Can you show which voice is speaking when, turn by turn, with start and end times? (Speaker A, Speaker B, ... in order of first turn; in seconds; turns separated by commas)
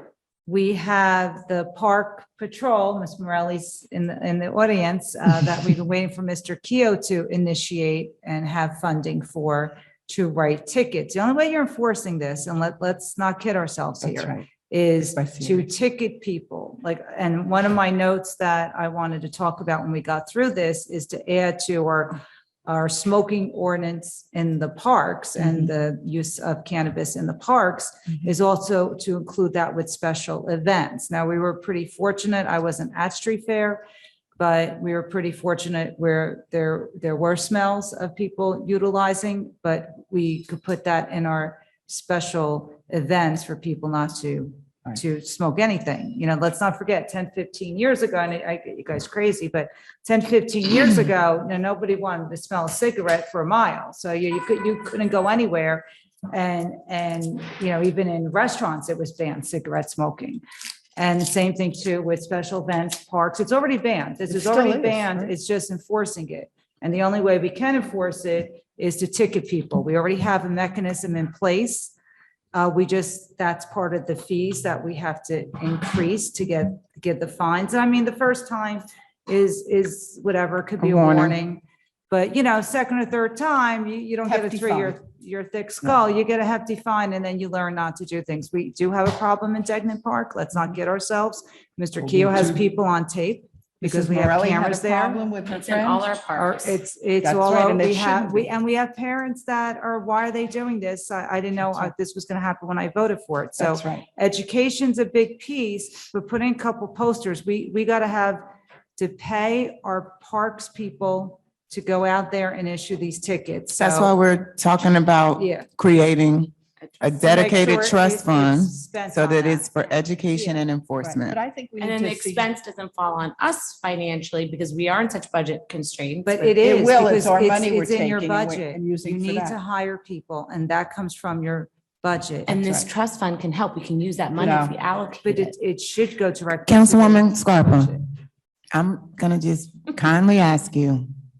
Speaker A: 0.5-33.8, Speaker B: 14.0-14.5, Speaker B: 15.0-15.7, Speaker B: 25.4-25.7, Speaker A: 34.4-60.4, Speaker A: 61.0-71.9, Speaker B: 64.3-65.3, Speaker A: 72.5-95.2, Speaker C: 80.8-81.4, Speaker B: 84.2-85.0, Speaker B: 92.0-92.6, Speaker B: 93.8-96.1, Speaker D: 95.5-96.8, Speaker A: 96.3-114.2, Speaker B: 97.2-98.5, Speaker B: 101.6-101.9, Speaker B: 103.6-104.0, Speaker C: 113.8-121.4, Speaker A: 115.4-115.7, Speaker D: 117.0-117.3, Speaker A: 117.2-120.6, Speaker B: 121.0-122.5, Speaker D: 121.8-126.6, Speaker A: 126.2-132.6, Speaker B: 126.6-129.6, Speaker D: 132.5-135.5, Speaker B: 132.5-132.9, Speaker B: 134.4-134.8, Speaker A: 135.2-138.0, Speaker C: 136.7-138.0, Speaker C: 138.7-141.1